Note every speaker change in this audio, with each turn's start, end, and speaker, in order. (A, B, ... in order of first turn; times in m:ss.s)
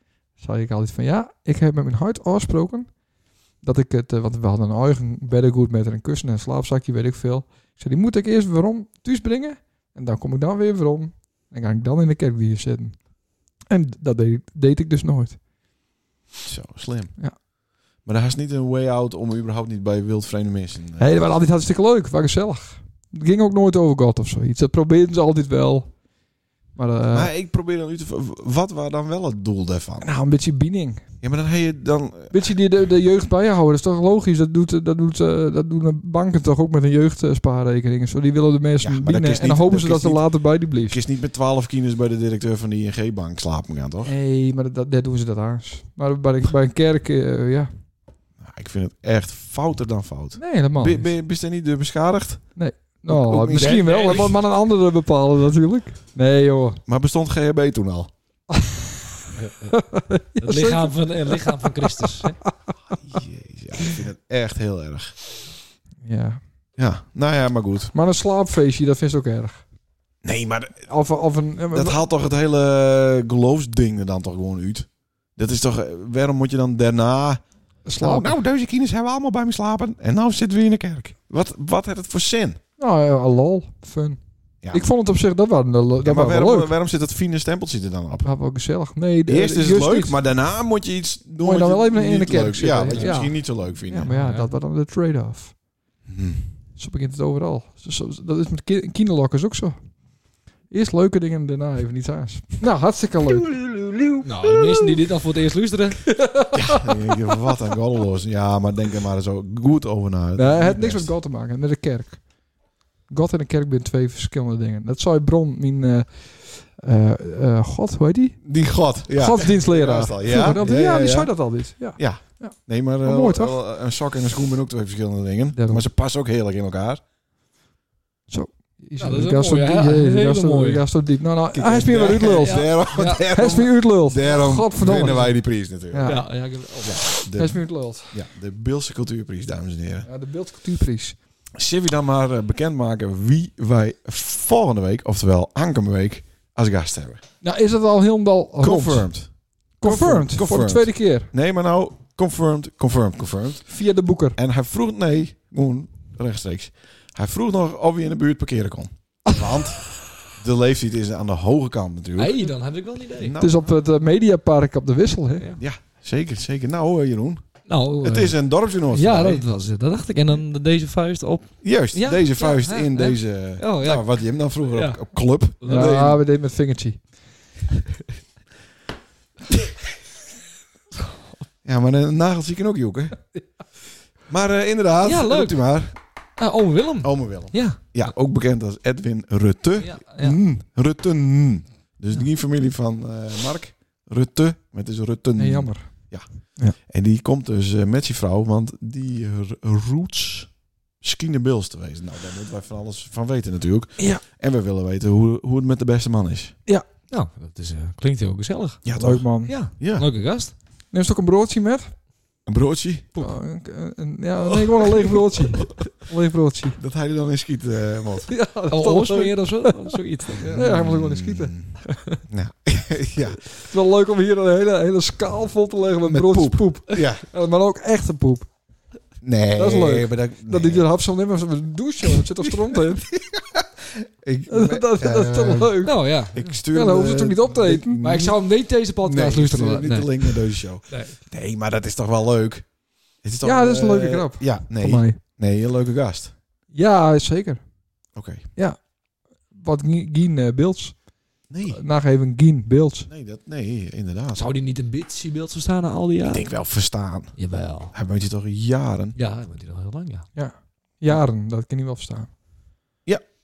0:00.4-0:02.9 A
0:03.6-0:13.0 A
0:13.7-0:15.4 A
0:16.4-0:17.2 B
0:18.0-0:21.1 B
0:21.0-0:25.9 A
0:26.7-0:27.3 A
0:27.1-0:30.1 B
0:30.0-0:31.0 A
0:31.2-0:32.5 B
0:32.3-0:41.0 A
0:38.8-0:44.1 B
0:44.0-0:47.7 A
0:48.4-0:52.5 B
0:50.4-0:51.1 A
0:52.6-0:56.8 A
0:53.1-0:54.3 B
0:53.5-0:54.3 C
0:56.9-0:58.1 B
0:58.5-0:58.8 A
0:59.7-1:02.5 A
1:00.4-1:02.4 C
1:02.9-1:05.1 B
1:06.0-1:06.4 A
1:06.8-1:07.9 B
1:07.9-1:09.6 A
1:10.2-1:10.9 B
1:10.9-1:12.0 A
1:11.7-1:17.4 B
1:17.8-1:18.4 A
1:18.0-1:22.6 B
1:22.8-1:26.7 A
1:24.6-1:24.9 B
1:26.0-1:28.3 B
1:28.2-1:30.2 A
1:29.3-1:34.1 B
1:31.4-1:35.6 A
1:34.1-1:34.5 C
1:36.1-1:36.4 B
1:36.8-1:39.8 A
1:40.7-1:44.2 A
1:44.2-1:46.2 C
1:46.2-1:46.8 A
1:46.5-1:51.1 B
1:50.4-1:52.2 A
1:53.1-1:58.4 A
1:58.4-2:07.0 B
1:59.1-2:03.6 A
2:05.5-2:05.8 A
2:08.3-2:16.3 A
2:09.0-2:10.8 C
2:11.5-2:16.3 B
2:12.1-2:13.2 C
2:16.0-2:17.0 C
2:16.8-2:20.1 B
2:17.4-2:18.1 A
2:20.0-2:21.2 A
2:21.5-2:27.2 B
2:27.4-2:29.1 A
2:28.6-2:33.7 B
2:29.8-2:31.3 A
2:33.7-2:34.4 A
2:34.4-2:42.5 B
2:42.2-2:43.4 C
2:43.2-2:43.6 B
2:43.4-2:45.4 A
2:45.6-2:47.4 B
2:47.7-2:56.1 C
2:48.0-2:49.4 B
2:51.6-2:56.1 B
2:55.7-2:57.1 A
3:01.6-3:03.2 B
3:04.3-3:05.9 B
3:05.0-3:05.8 C
3:06.4-3:08.1 C
3:07.0-3:16.2 B
3:09.8-3:10.4 C
3:15.4-3:16.8 A
3:16.8-3:26.6 B
3:27.1-3:28.9 C
3:28.8-3:30.1 B
3:29.0-3:29.5 A
3:29.4-3:30.5 C
3:30.9-3:31.9 A
3:32.4-3:33.1 B
3:33.2-3:36.8 A
3:34.5-3:35.0 B
3:36.8-3:38.3 B
3:38.3-3:39.8 A
3:38.7-3:40.6 C
3:40.4-3:41.5 A
3:40.5-3:43.4 B
3:41.9-3:42.2 C
3:43.7-3:48.5 A
3:46.1-3:47.2 B
3:49.2-3:50.8 B
3:49.6-3:53.1 A
3:53.3-3:55.8 B
3:54.5-3:56.0 A
3:55.8-3:56.6 C
3:56.3-3:58.4 B
3:56.7-3:58.0 A
3:58.0-4:01.2 C
3:59.0-4:06.3 B
4:03.4-4:05.2 A
4:06.7-4:07.7 A
4:08.1-4:08.4 B
4:08.6-4:08.8 A
4:09.5-4:11.0 A
4:11.5-4:11.8 B
4:11.7-4:13.1 A
4:13.1-4:14.4 B
4:14.3-4:16.6 C
4:16.2-4:19.2 B
4:17.4-4:17.9 C
4:19.2-4:20.3 C
4:20.3-4:22.3 A